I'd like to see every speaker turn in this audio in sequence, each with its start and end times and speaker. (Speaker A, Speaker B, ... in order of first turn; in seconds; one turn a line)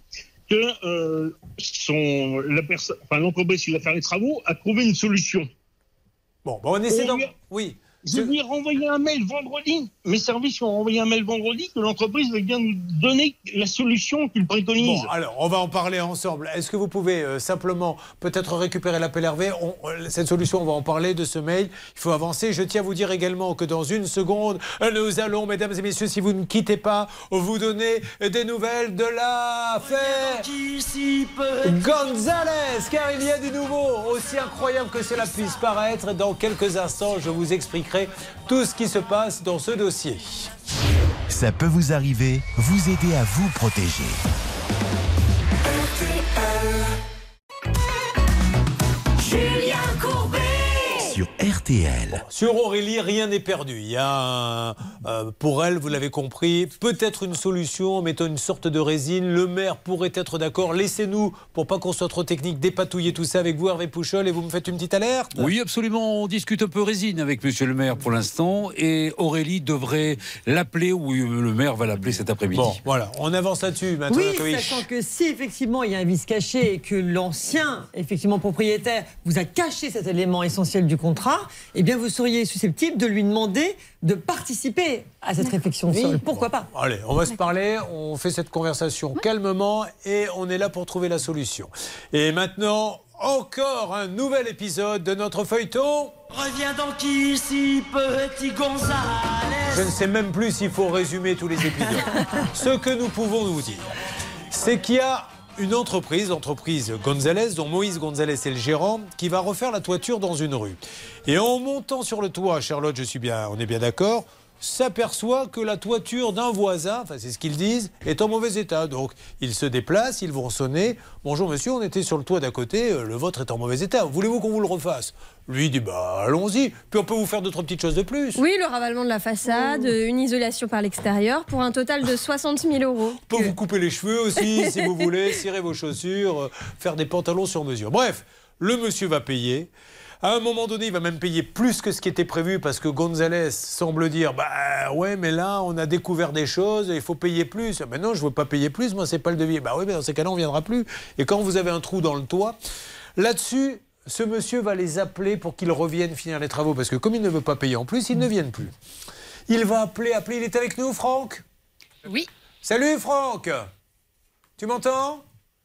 Speaker A: 0.5-5.5
Speaker B: 6.5-8.3
Speaker A: 6.9-7.3
Speaker A: 8.1-15.1
Speaker B: 14.8-30.5
Speaker C: 30.0-31.9
Speaker B: 31.6-40.5
Speaker D: 41.3-44.2
Speaker C: 49.2-51.0
Speaker D: 51.0-52.2
Speaker B: 52.2-65.5
Speaker E: 65.3-72.8
Speaker B: 72.5-74.9
Speaker F: 74.1-86.7
Speaker B: 85.9-96.2
Speaker C: 96.3-99.9
Speaker B: 99.7-103.9
Speaker B: 104.5-128.4
Speaker G: 128.4-133.4
Speaker B: 133.3-139.7
Speaker B: 140.2-152.6
Speaker B: 153.2-158.7
Speaker B: 159.5-161.4
Speaker B: 162.6-163.7
Speaker B: 164.6-165.2